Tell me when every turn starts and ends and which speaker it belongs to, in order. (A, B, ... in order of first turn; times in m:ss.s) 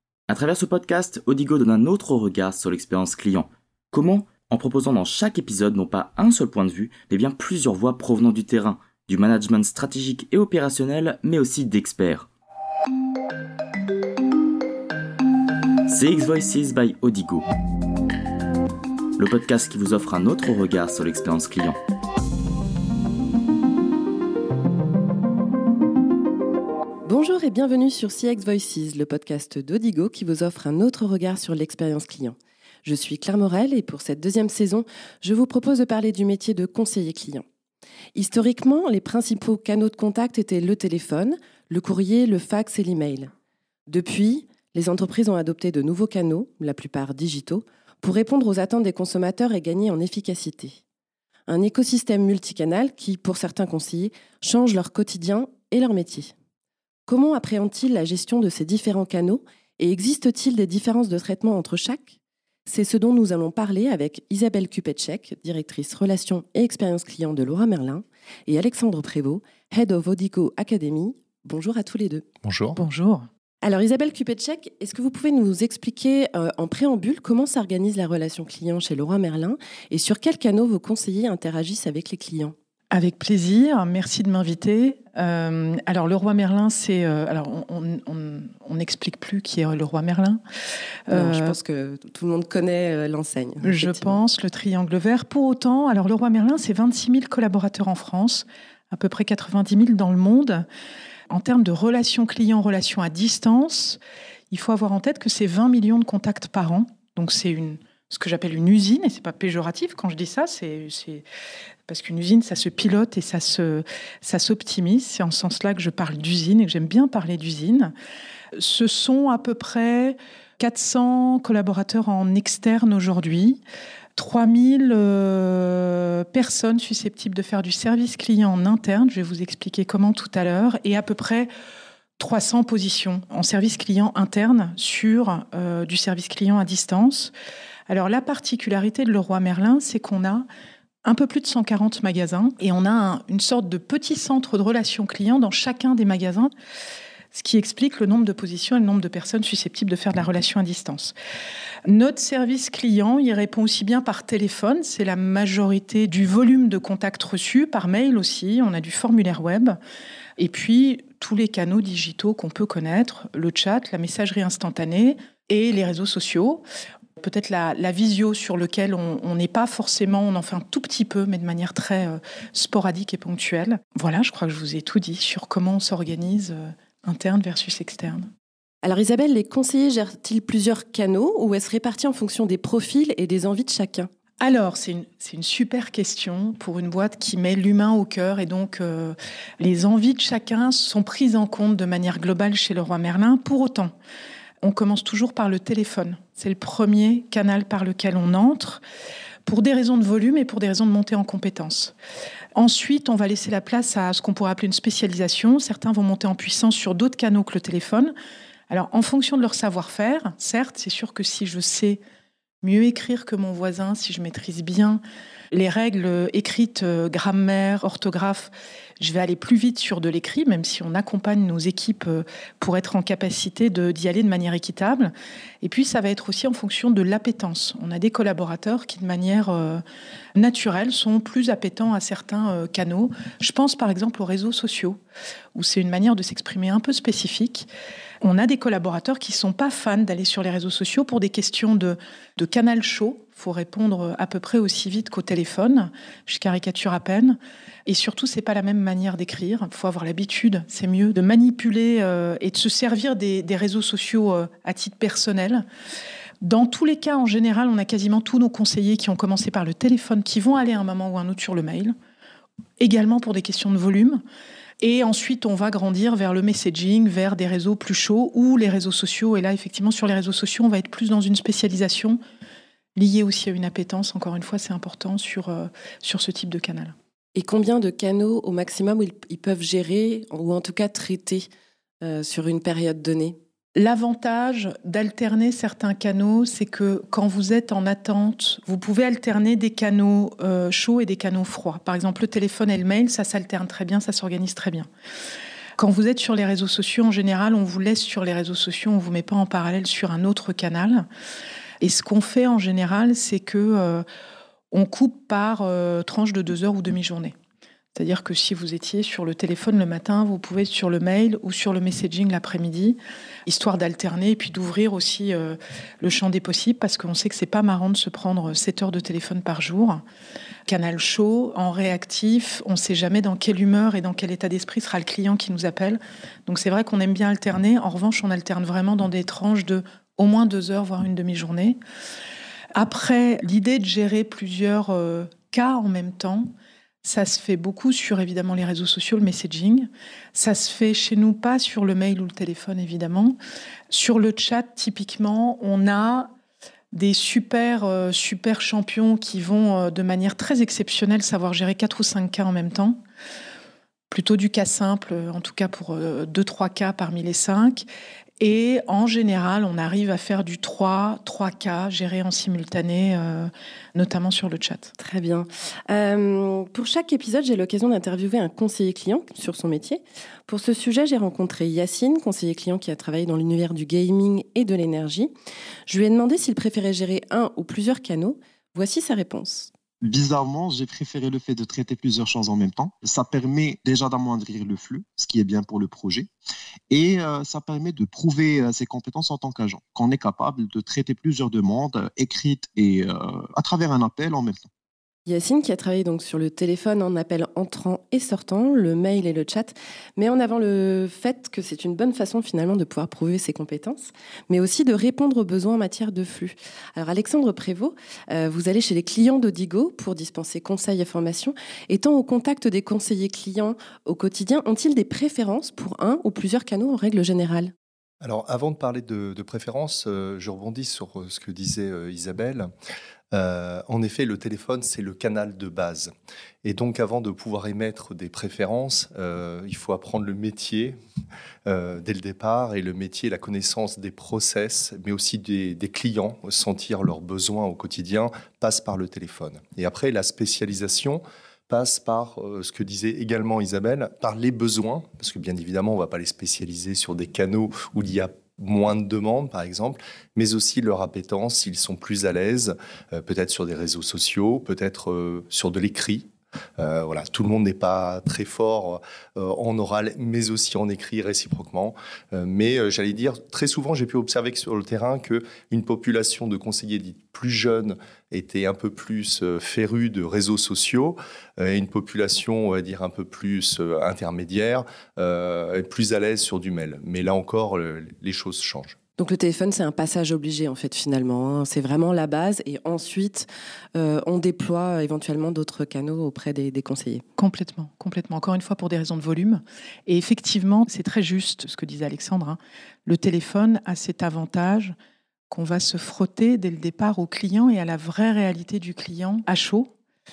0:00.3-0:12.3 A
0:15.9-0:17.4 A
0:19.2-0:21.8 A
0:27.0-0:37.4 B
0:38.1-0:43.3 B
0:43.9-0:50.8 B
0:51.5-0:56.3 B
0:57.1-1:12.3 B
1:12.4-1:12.8 C
1:12.7-1:13.2 D
1:13.6-1:22.5 B
1:22.9-1:30.4 D
1:31.1-1:31.5 D
1:31.1-1:34.2 B
1:33.6-1:40.6 D
1:41.3-1:44.0 D
1:44.5-1:51.2 D
1:51.9-1:57.9 D
1:58.5-2:03.6 D
2:04.1-2:11.5 D
2:12.2-2:17.3 D
2:17.9-2:20.4 D
2:21.0-2:26.5 D
2:27.3-2:31.1 D
2:31.9-2:39.8 D
2:40.4-2:46.6 D
2:47.2-2:58.3 D
2:58.8-3:04.1 B
3:04.4-3:13.9 D
3:14.6-3:18.8 D
3:19.4-3:21.9 D
3:22.5-3:28.1 D
3:28.7-3:32.0 D
3:32.6-3:35.0 D
3:35.5-3:49.8 D
3:50.4-3:55.0 D
3:55.5-3:57.7 D
3:58.2-4:15.6 D
4:16.4-4:21.9 D
4:22.8-4:24.2 D
4:24.8-4:32.2 D
4:32.9-4:36.9 D
4:37.4-4:41.5 B
4:42.0-4:43.4 B
4:43.7-4:54.9 D
4:55.8-5:01.0 D
5:01.8-5:04.0 D
5:04.7-5:07.3 D
5:07.9-5:20.0 D
5:20.7-5:31.8 D
5:32.7-5:36.5 D
5:37.0-5:43.4 D
5:43.9-5:46.3 D
5:46.9-5:53.0 D
5:54.1-5:57.8 D
5:58.4-6:04.9 D
6:05.0-6:15.3 B
6:15.9-6:19.7 B
6:20.0-6:26.3 E
6:26.9-6:34.7 E
6:35.3-6:57.7 B
6:58.2-7:02.7 C
7:03.3-7:06.1 C
7:06.6-7:11.0 C
7:11.7-7:59.0 C
7:59.2-8:07.2 B
8:07.4-8:14.9 D
8:15.5-8:19.9 D